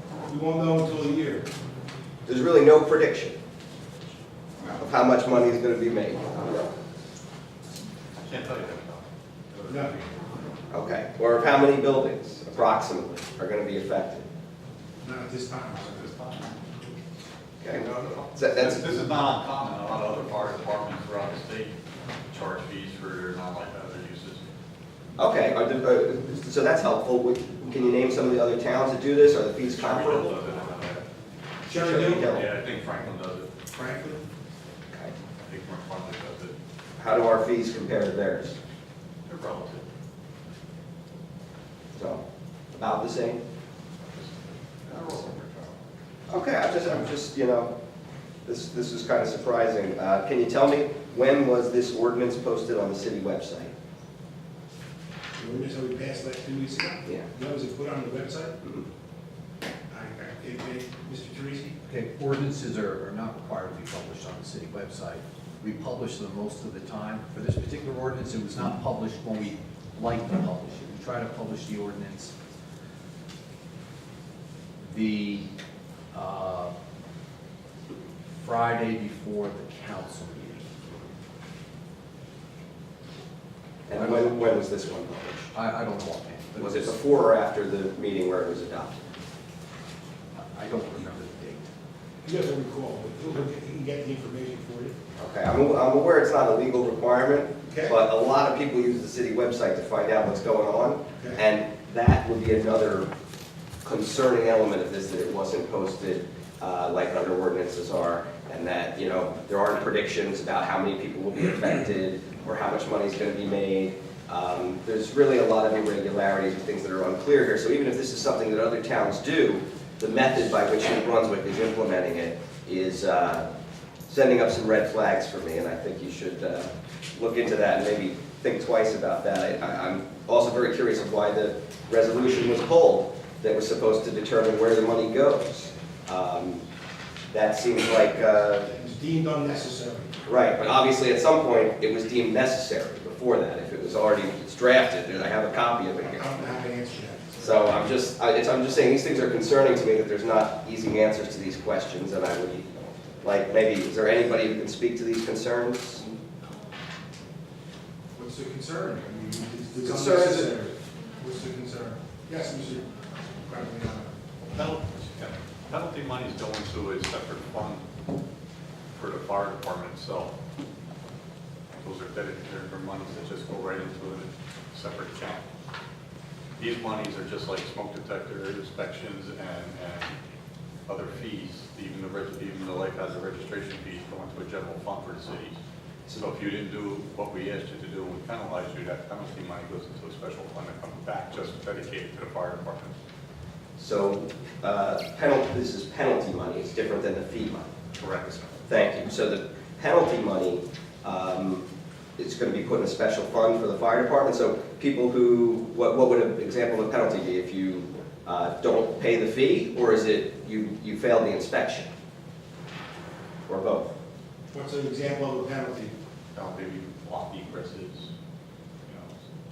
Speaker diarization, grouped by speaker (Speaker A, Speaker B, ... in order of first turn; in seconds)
Speaker A: 0.3-1.5, 9.7-10.0, 15.0-16.1, 17.7-18.2, 31.7-32.4, 33.7-34.2, 55.4-58.6, 59.9-61.8, 92.2-95.0, 97.6-98.0, 138.5-140.1, 146.1-147.7, 158.2-164.9, 214.5-215.9
Speaker B: 2.3-3.4, 4.7-6.7, 10.7-14.2, 17.6-18.9, 25.2-30.3, 31.8-32.5, 37.0-38.6, 42.0-42.2, 42.7-43.4, 46.3-47.7, 48.5-53.7, 83.9-85.5, 86.5-89.0, 95.2-103.1, 103.8-123.5, 124.1-136.6, 137.3-138.7, 140.3-146.3, 147.4-156.1, 159.8-160.5, 193.8-197.7, 198.7-201.7, 202.2-211.9, 213.5-213.9
Speaker C: 8.2-10.2, 15.8-16.7, 17.8-21.8, 22.3-24.4, 29.6-31.1, 31.9-33.5, 35.3-36.6, 39.2-39.9, 44.0-45.8, 164.9-167.8, 168.9-170.3, 171.8-175.5, 176.6-180.2, 180.9-185.6, 186.2-193.0, 198.0-198.6, 216.3-218.1, 218.8-219.2
Speaker D: 61.9-72.3, 74.8-75.5, 76.1-76.7, 78.4-80.7, 84.0-84.5, 85.5-87.0, 90.3-91.7